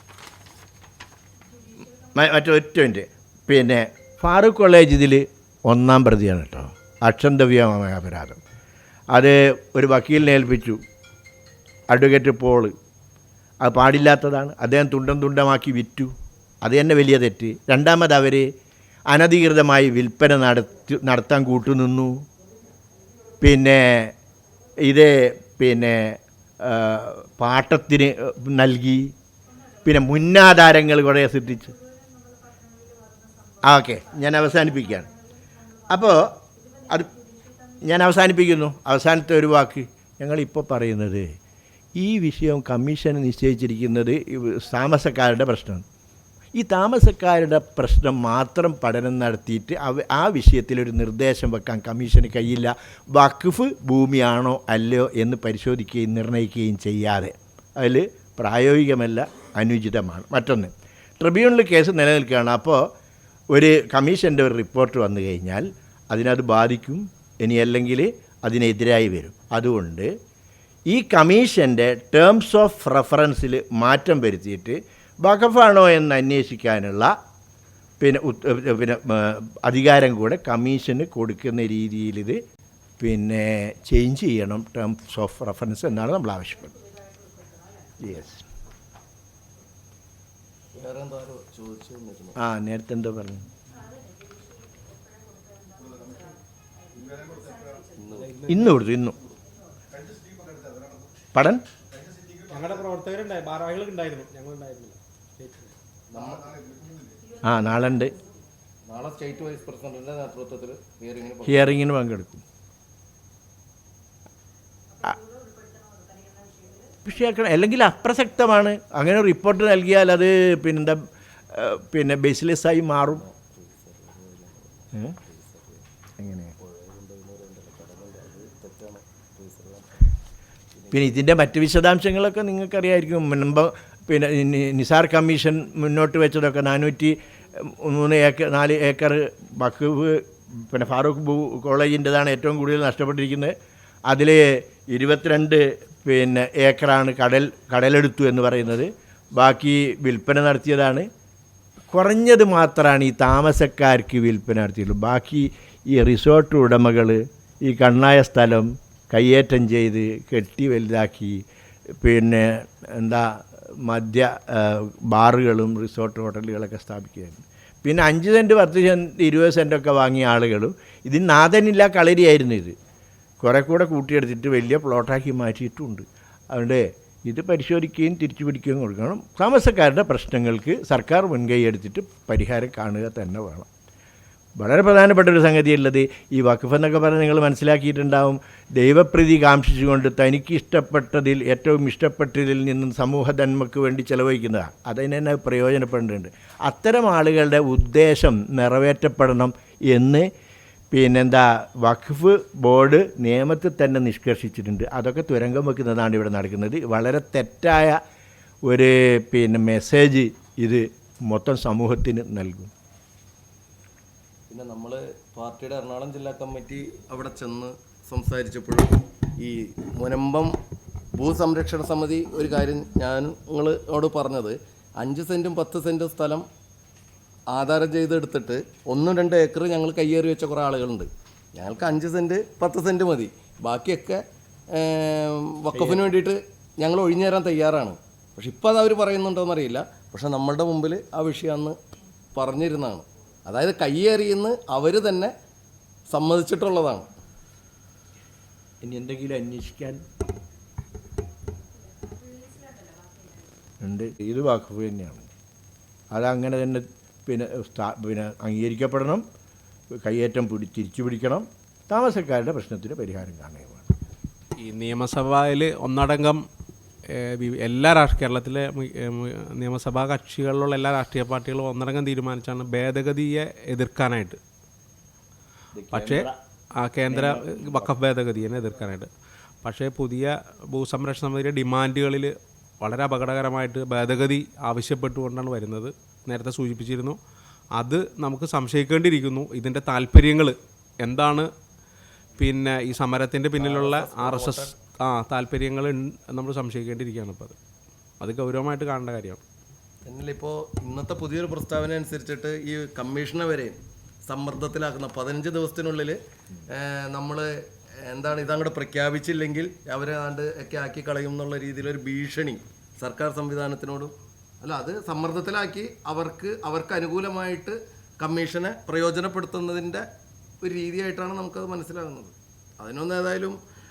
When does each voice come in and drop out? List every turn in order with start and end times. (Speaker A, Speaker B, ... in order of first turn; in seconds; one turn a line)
Speaker A: 2.0-8.4
Speaker A: 9.1-10.8
Speaker A: 11.9-12.7
Speaker A: 13.6-16.1
Speaker A: 16.6-18.5
Speaker A: 19.1-22.1
Speaker A: 23.4-24.1
Speaker A: 24.9-29.1
Speaker A: 29.8-31.8
Speaker B: 32.3-33.0
Speaker A: 33.6-35.1
Speaker A: 35.9-37.2
Speaker A: 37.8-41.3
Speaker A: 42.0-45.9
Speaker A: 46.5-62.9
Speaker A: 63.5-70.1
Speaker A: 70.9-77.1
Speaker A: 78.0-82.4
Speaker A: 83.0-86.8
Speaker B: 87.2-87.6
Speaker A: 88.0-88.4
Speaker C: 90.8-92.4
Speaker A: 92.4-93.5
Speaker B: 94.0-96.4
Speaker B: 97.3-98.7
Speaker C: 97.9-98.3
Speaker A: 98.5-99.2
Speaker A: 101.3-101.6
Speaker B: 102.5-105.7
Speaker C: 106.1-106.7
Speaker A: 107.4-108.2
Speaker C: 108.9-111.7
Speaker A: 111.5-112.4
Speaker B: 115.2-116.9
Speaker A: 117.0-121.0
Speaker A: 121.5-123.2
Speaker C: 123.2-125.8
Speaker A: 126.2-126.5
Speaker C: 126.6-130.1
Speaker C: 130.8-131.1
Speaker A: 130.9-143.6
Speaker A: 144.1-151.1
Speaker A: 151.9-161.4
Speaker A: 162.0-172.8
Speaker A: 173.4-183.7
Speaker A: 184.6-200.3
Speaker A: 200.9-208.0
Speaker A: 208.7-212.7
Speaker C: 214.5-220.5
Speaker C: 221.2-226.4
Speaker C: 227.5-241.8
Speaker C: 242.3-245.3
Speaker C: 246.1-247.1
Speaker A: 248.8-250.0
Speaker B: 252.7-253.0
Speaker A: 253.8-255.3
Speaker A: 256.1-259.2
Speaker A: 260.0-263.9
Speaker B: 264.7-266.4
Speaker B: 267.1-274.4
Speaker A: 275.7-276.4
Speaker B: 275.9-276.3
Speaker B: 276.8-279.1
Speaker A: 277.1-277.9
Speaker B: 279.6-287.2
Speaker B: 287.8-291.5
Speaker B: 292.4-297.6
Speaker C: 293.6-294.7
Speaker B: 298.2-299.4
Speaker C: 300.1-303.8
Speaker C: 304.3-306.2
Speaker C: 306.7-307.5
Speaker C: 308.1-320.1
Speaker C: 320.6-323.6